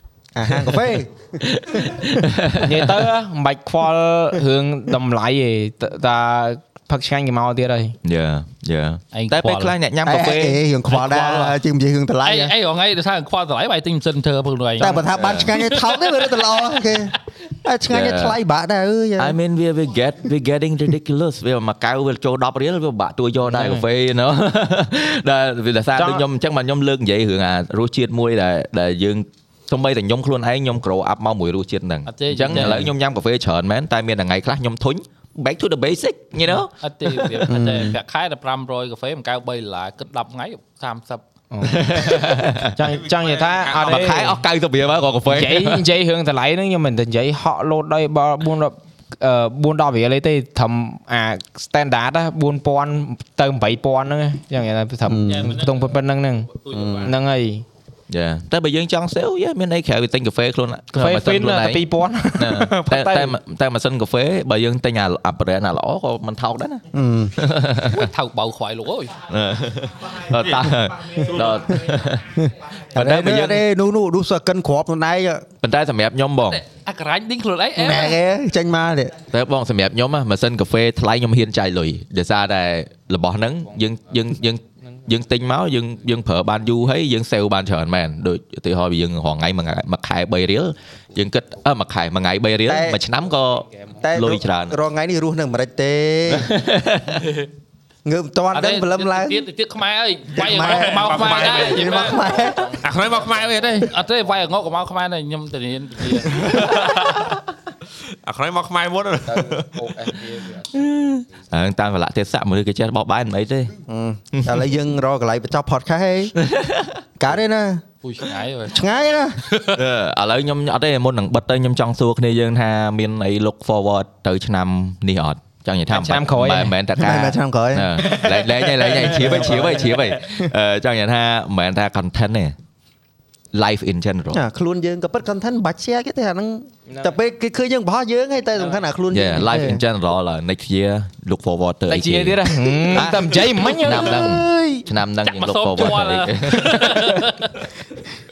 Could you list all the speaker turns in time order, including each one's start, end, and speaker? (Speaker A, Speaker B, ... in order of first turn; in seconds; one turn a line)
Speaker A: 0.3-1.4
Speaker B: 1.4-3.0
Speaker C: 2.6-8.0
Speaker B: 8.0-10.6
Speaker D: 9.1-9.7
Speaker A: 10.0-12.5
Speaker D: 10.9-11.6
Speaker D: 12.2-16.4
Speaker A: 14.8-19.4
Speaker B: 14.9-15.5
Speaker B: 17.9-18.4
Speaker B: 19.2-37.3
Speaker C: 23.5-23.8
Speaker C: 25.9-26.2
Speaker D: 32.1-32.8
Speaker C: 32.5-32.8
Speaker D: 36.8-41.2
Speaker A: 37.5-38.0
Speaker C: 41.5-44.4
Speaker B: 41.6-42.8
Speaker E: 42.8-44.1
Speaker B: 43.8-45.8
Speaker C: 45.3-56.5
Speaker A: 55.1-55.5
Speaker D: 55.3-55.9
Speaker D: 56.5-57.1
Speaker A: 56.7-57.1
Speaker C: 57.0-57.6
Speaker B: 58.1-66.8
Speaker C: 60.9-63.3
Speaker A: 66.9-67.3
Speaker B: 67.4-68.1
Speaker D: 67.9-69.2
Speaker B: 69.3-73.6
Speaker E: 70.4-71.6
Speaker A: 72.9-75.4
Speaker B: 75.6-76.6
Speaker D: 76.5-78.2
Speaker A: 77.8-79.1
Speaker B: 79.3-94.8
Speaker A: 92.7-93.0
Speaker A: 94.0-96.5
Speaker B: 96.3-97.3
Speaker A: 98.0-99.5
Speaker D: 98.5-102.3
Speaker E: 100.3-102.1
Speaker A: 100.3-102.8
Speaker E: 102.8-103.9
Speaker D: 103.9-106.5
Speaker E: 106.6-107.2
Speaker E: 108.2-110.1
Speaker B: 110.6-113.7
Speaker A: 113.9-116.3
Speaker B: 114.3-114.7
Speaker B: 116.4-117.0
Speaker A: 117.2-117.8
Speaker D: 118.0-118.7
Speaker A: 118.7-119.4
Speaker B: 119.7-132.5
Speaker C: 125.9-126.7
Speaker A: 127.0-128.2
Speaker A: 128.8-129.9
Speaker B: 133.5-134.4
Speaker A: 134.3-139.8
Speaker B: 139.1-147.2
Speaker C: 141.9-144.1
Speaker A: 143.4-144.9
Speaker D: 145.2-147.6